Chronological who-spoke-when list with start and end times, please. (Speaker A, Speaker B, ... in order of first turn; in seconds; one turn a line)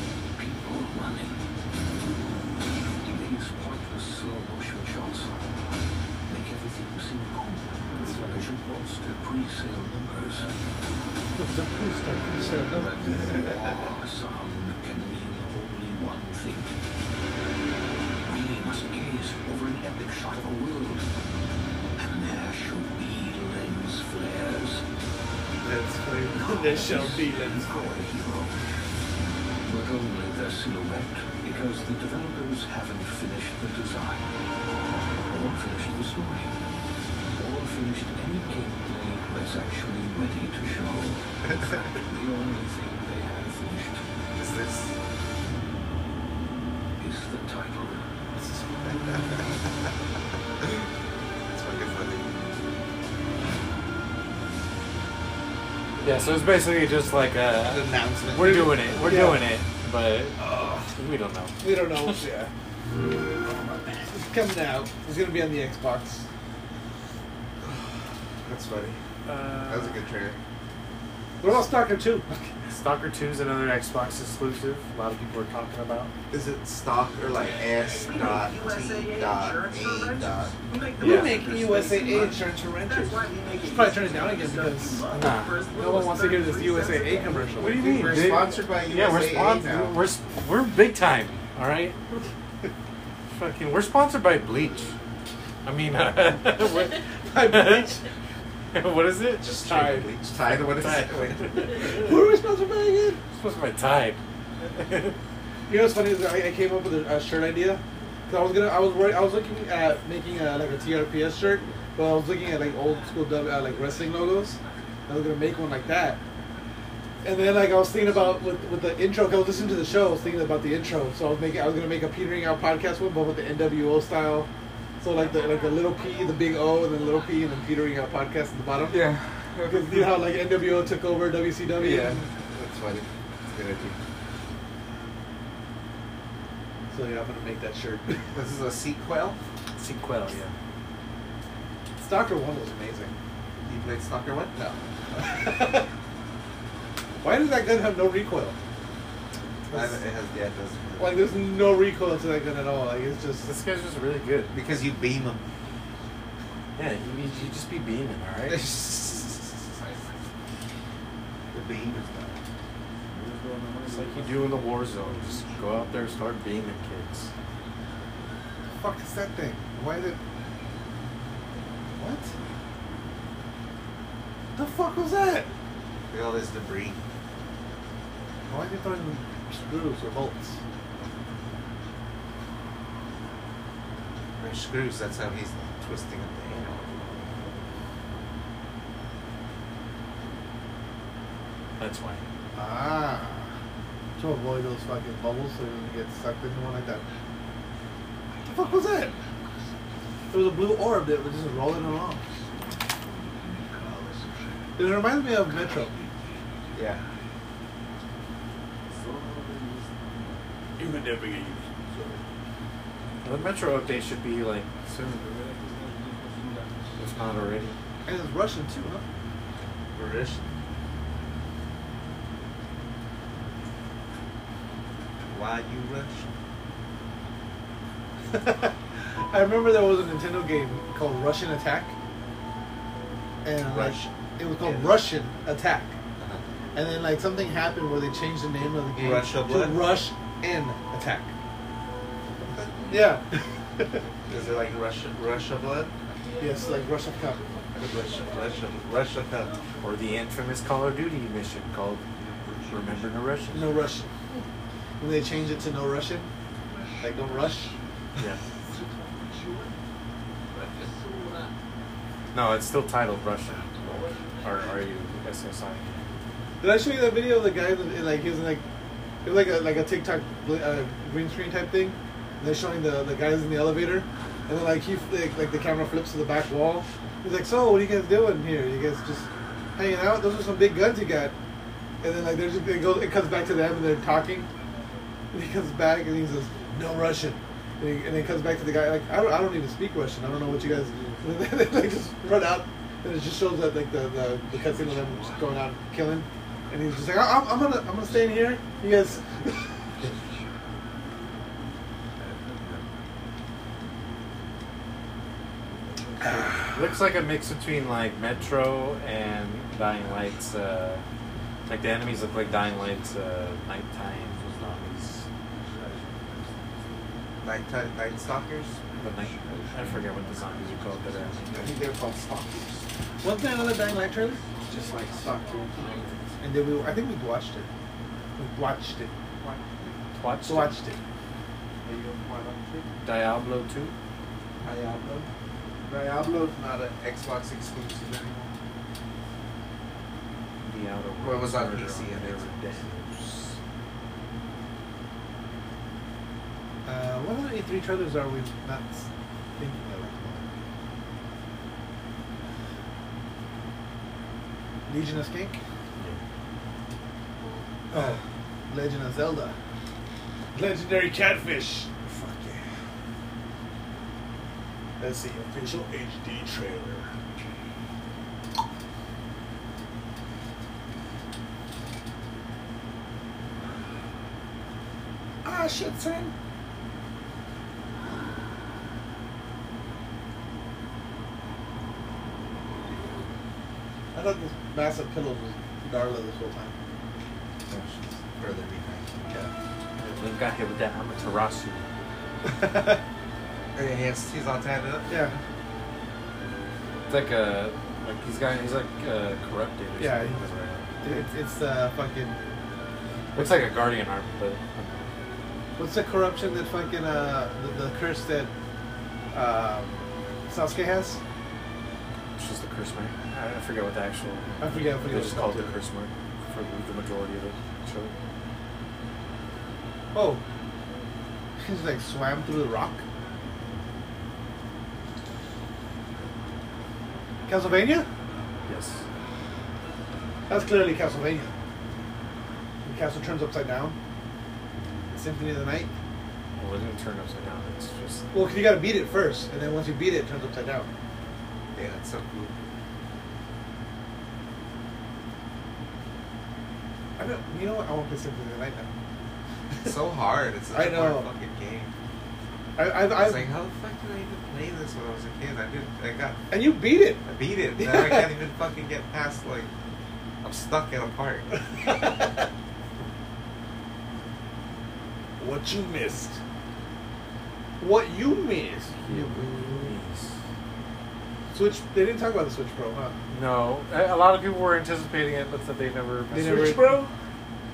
Speaker A: 0.3-1.4
Speaker A: 3.0-5.4
Speaker A: 6.3-10.5
Speaker B: 8.1-8.4
Speaker C: 11.3-13.5
Speaker A: 12.7-16.7
Speaker A: 18.2-21.1
Speaker A: 22.0-24.8
Speaker B: 25.6-26.1
Speaker C: 25.6-27.7
Speaker A: 26.3-28.6
Speaker A: 29.6-34.3
Speaker A: 35.2-36.5
Speaker A: 37.3-44.0
Speaker B: 44.3-45.0
Speaker A: 47.0-48.0
Speaker B: 48.3-49.9
Speaker B: 51.5-52.3
Speaker D: 56.0-60.4
Speaker B: 57.6-59.0
Speaker C: 59.0-59.4
Speaker B: 60.4-60.8
Speaker D: 60.9-62.2
Speaker C: 61.6-62.5
Speaker C: 64.1-66.2
Speaker B: 68.4-69.0
Speaker D: 69.2-70.0
Speaker B: 69.7-70.4
Speaker C: 71.4-72.3
Speaker D: 72.7-76.1
Speaker B: 76.3-80.5
Speaker E: 80.7-81.8
Speaker C: 80.9-85.1
Speaker D: 81.0-81.4
Speaker B: 81.7-82.3
Speaker D: 85.1-85.7
Speaker C: 85.7-88.0
Speaker D: 87.5-92.0
Speaker B: 87.7-89.9
Speaker D: 93.3-94.9
Speaker D: 95.6-98.0
Speaker C: 97.2-98.0
Speaker D: 98.7-102.1
Speaker B: 99.5-102.0
Speaker C: 99.5-100.0
Speaker C: 101.7-103.2
Speaker D: 103.3-105.2
Speaker C: 105.7-116.2
Speaker C: 117.2-124.5
Speaker C: 125.0-129.1
Speaker B: 128.8-130.3
Speaker C: 129.7-132.3
Speaker B: 131.7-134.0
Speaker C: 136.9-138.2
Speaker B: 138.3-139.4
Speaker D: 139.8-140.5
Speaker C: 142.0-143.1
Speaker B: 143.7-144.8
Speaker C: 145.1-145.9
Speaker C: 147.2-148.6
Speaker C: 149.7-150.0
Speaker B: 149.7-151.4
Speaker C: 151.0-153.5
Speaker D: 153.4-154.5
Speaker B: 154.5-155.4
Speaker D: 156.8-158.7
Speaker B: 158.5-160.2
Speaker B: 161.5-162.4
Speaker E: 163.1-165.6
Speaker D: 163.8-167.3
Speaker C: 168.7-170.2
Speaker C: 172.0-172.3
Speaker C: 174.5-175.5
Speaker B: 176.1-177.0
Speaker C: 178.5-180.6
Speaker B: 184.4-186.8
Speaker D: 191.8-192.2
Speaker C: 192.5-193.5
Speaker C: 194.2-197.0
Speaker C: 198.5-199.1
Speaker C: 200.3-202.3
Speaker A: 202.5-206.5
Speaker C: 204.8-205.9
Speaker B: 206.7-207.0
Speaker E: 210.8-212.2
Speaker D: 213.2-215.3
Speaker D: 217.0-217.8
Speaker C: 218.0-219.0
Speaker B: 219.9-220.4
Speaker B: 225.3-226.3
Speaker C: 228.3-228.8
Speaker C: 229.3-231.9
Speaker C: 233.4-236.0
Speaker B: 233.6-235.0
Speaker B: 236.2-236.4
Speaker C: 236.7-241.3
Speaker B: 238.9-240.0
Speaker B: 242.4-243.1
Speaker C: 242.9-244.0
Speaker B: 244.3-245.9
Speaker C: 246.4-247.5
Speaker B: 247.7-249.6
Speaker D: 249.8-252.0
Speaker D: 252.7-253.7
Speaker C: 253.5-254.1
Speaker C: 255.0-256.3
Speaker C: 257.0-257.8
Speaker D: 262.3-266.1
Speaker C: 266.6-268.6
Speaker C: 269.2-281.3
Speaker C: 282.0-284.5
Speaker C: 285.3-299.6
Speaker D: 306.2-311.0
Speaker D: 311.7-315.2
Speaker B: 317.4-318.8
Speaker D: 319.0-321.6
Speaker B: 321.5-322.9
Speaker C: 323.2-324.4
Speaker B: 324.7-325.9
Speaker C: 326.4-327.7
Speaker C: 328.4-329.1
Speaker B: 329.4-330.0
Speaker D: 330.1-330.7
Speaker C: 330.4-331.0
Speaker B: 331.8-332.9
Speaker D: 333.0-333.9
Speaker B: 334.6-335.3
Speaker B: 335.9-338.5
Speaker D: 340.6-343.6
Speaker B: 341.2-342.8
Speaker C: 346.8-350.5
Speaker C: 354.9-355.6
Speaker C: 357.9-359.6
Speaker C: 360.5-362.6
Speaker E: 361.0-362.0
Speaker C: 365.0-365.7
Speaker E: 365.6-367.1
Speaker C: 375.4-376.3
Speaker C: 384.1-386.7
Speaker B: 387.7-389.3
Speaker D: 390.0-391.9
Speaker C: 392.4-393.0
Speaker B: 393.7-395.1
Speaker C: 395.1-395.4
Speaker D: 397.1-401.0
Speaker C: 400.0-400.4
Speaker C: 401.0-402.4
Speaker D: 403.3-405.1
Speaker C: 405.8-408.5
Speaker C: 409.3-411.2
Speaker D: 412.4-418.1
Speaker C: 414.6-415.8
Speaker C: 420.1-420.4
Speaker C: 421.6-423.0
Speaker C: 427.5-428.1
Speaker D: 428.7-429.0
Speaker C: 430.5-431.5
Speaker C: 432.8-433.9
Speaker C: 435.1-435.9
Speaker D: 436.6-438.3
Speaker C: 438.3-440.9
Speaker B: 441.7-442.6
Speaker C: 447.2-448.9
Speaker B: 449.8-451.9
Speaker C: 450.7-451.3
Speaker C: 452.8-453.5
Speaker B: 453.1-456.5
Speaker C: 456.5-458.4
Speaker B: 457.2-459.7
Speaker B: 460.4-461.5
Speaker C: 461.8-462.3
Speaker C: 465.4-466.4
Speaker C: 467.8-469.9
Speaker D: 469.0-470.4
Speaker C: 471.5-473.1
Speaker D: 473.3-476.9
Speaker C: 476.3-477.1